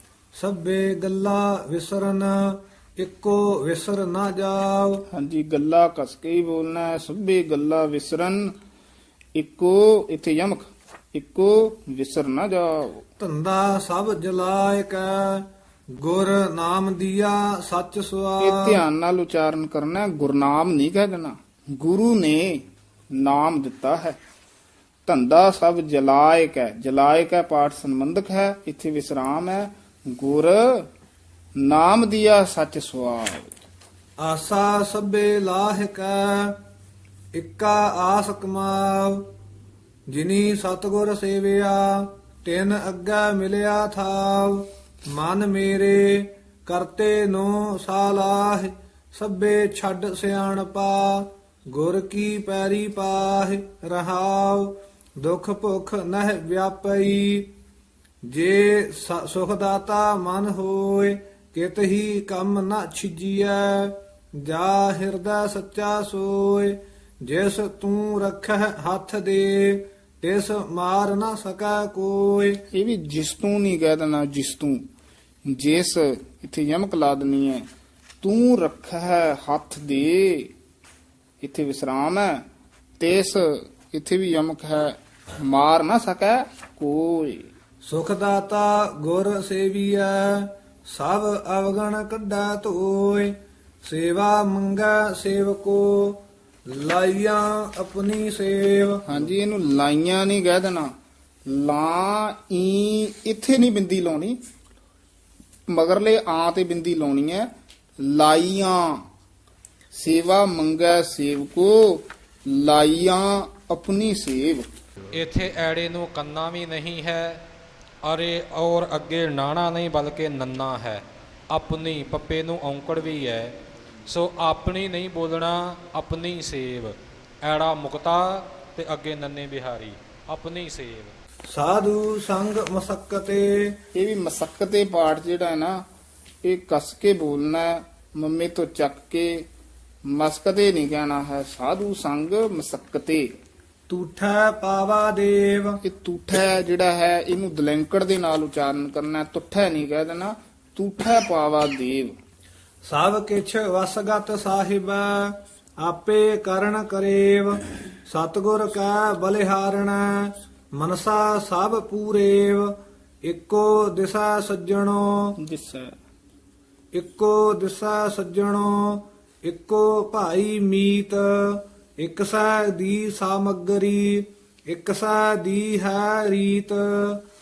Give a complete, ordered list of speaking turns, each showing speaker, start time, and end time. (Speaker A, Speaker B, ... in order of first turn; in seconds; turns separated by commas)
Speaker A: 0.3-5.0, Speaker B: 5.1-8.5, Speaker B: 9.3-13.0, Speaker A: 13.2-18.8, Speaker B: 18.4-22.6, Speaker B: 23.2-24.2, Speaker B: 25.1-30.9, Speaker B: 31.6-33.5, Speaker A: 34.2-36.6, Speaker A: 37.3-39.2, Speaker A: 40.1-57.5, Speaker A: 58.3-72.6, Speaker B: 72.7-74.8, Speaker B: 75.5-77.7, Speaker B: 78.2-80.5, Speaker B: 81.4-82.4, Speaker B: 83.0-87.5, Speaker A: 87.8-99.0, Speaker B: 99.1-100.9, Speaker B: 101.5-104.4, Speaker B: 105.7-107.5, Speaker B: 108.0-109.0, Speaker B: 109.9-114.7, Speaker C: 115.1-117.4, Speaker C: 118.0-123.5, Speaker C: 124.1-131.2, Speaker A: 131.5-133.8, Speaker B: 133.9-135.8, Speaker B: 136.4-139.5, Speaker B: 140.1-143.3, Speaker A: 143.9-145.8, Speaker B: 145.8-152.1, Speaker A: 152.8-162.7, Speaker A: 163.2-165.3, Speaker B: 165.4-165.9, Speaker A: 166.9-177.2